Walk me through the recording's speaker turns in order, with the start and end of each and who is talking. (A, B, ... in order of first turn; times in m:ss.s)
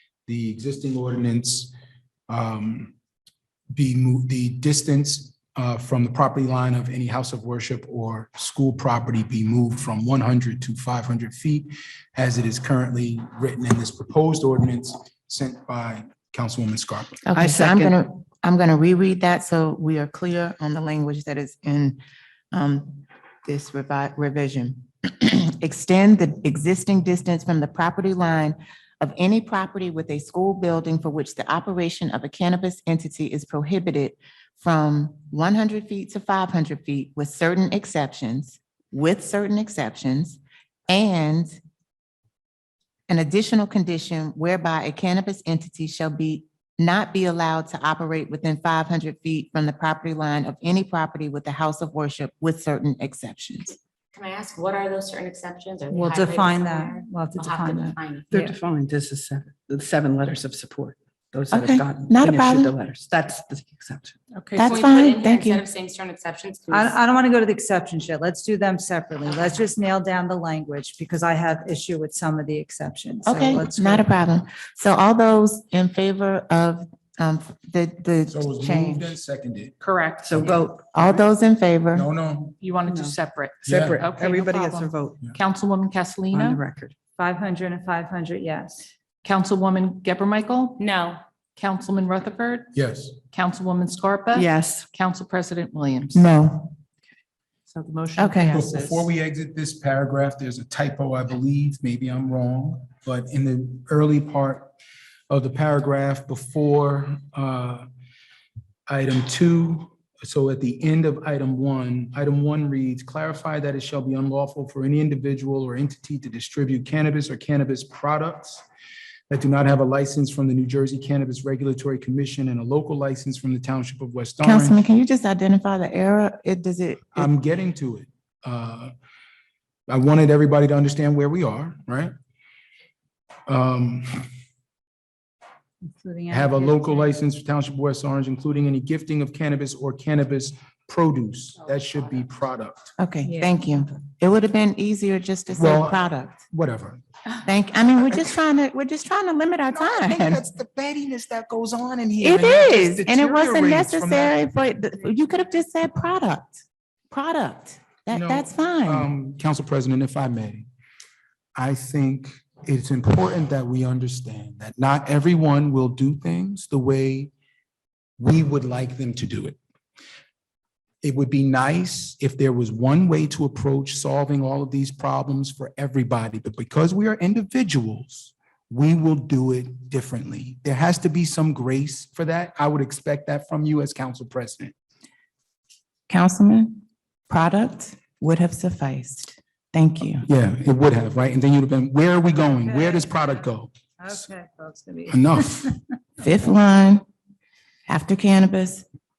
0:00.3-0:01.7 A
0:02.3-0:02.9 A
0:03.7-0:17.2 A
0:17.2-0:22.0 B
0:17.3-0:18.0 C
0:22.5-0:41.6 B
0:43.1-0:53.8 B
0:54.1-0:58.3 D
0:55.9-0:58.6 E
0:58.3-1:04.2 C
1:01.5-1:02.7 B
1:04.4-1:04.9 F
1:04.6-1:05.6 B
1:04.6-1:07.0 D
1:06.7-1:14.1 E
1:13.2-1:19.2 B
1:18.3-1:19.8 A
1:19.8-1:20.6 F
1:20.2-1:20.9 C
1:20.4-1:20.6 A
1:20.9-1:22.1 B
1:21.9-1:22.6 A
1:22.6-1:26.6 F
1:22.8-1:25.2 C
1:23.6-1:24.0 A
1:24.3-1:24.8 E
1:26.3-1:26.9 C
1:27.2-1:28.9 E
1:29.2-1:30.8 F
1:30.8-1:31.2 D
1:31.6-1:32.7 F
1:32.7-1:33.2 A
1:33.3-1:36.3 F
1:34.3-1:34.9 C
1:36.1-1:36.8 B
1:37.7-1:39.1 F
1:38.2-1:38.6 B
1:38.5-1:44.7 A
1:45.3-1:47.9 A
1:48.9-1:58.6 A
1:59.3-2:04.8 A
2:04.4-2:07.3 B
2:07.1-2:08.9 A
2:09.9-2:12.1 A
2:13.5-2:14.2 A
2:15.9-2:17.1 E
2:16.3-2:22.9 A
2:23.0-2:26.4 B
2:23.2-2:23.5 E
2:25.5-2:27.0 A
2:27.4-2:30.4 B
2:29.7-2:34.4 A
2:32.2-2:39.1 B
2:38.1-2:40.7 A
2:41.6-2:47.3 A
2:48.2-2:49.6 A
2:51.0-3:04.7 A
3:06.1-3:10.3 B
3:10.3-3:14.3 A
3:12.5-3:13.5 E
3:14.0-3:15.8 E
3:15.1-3:15.7 A
3:16.2-3:17.0 B
3:17.9-3:18.8 B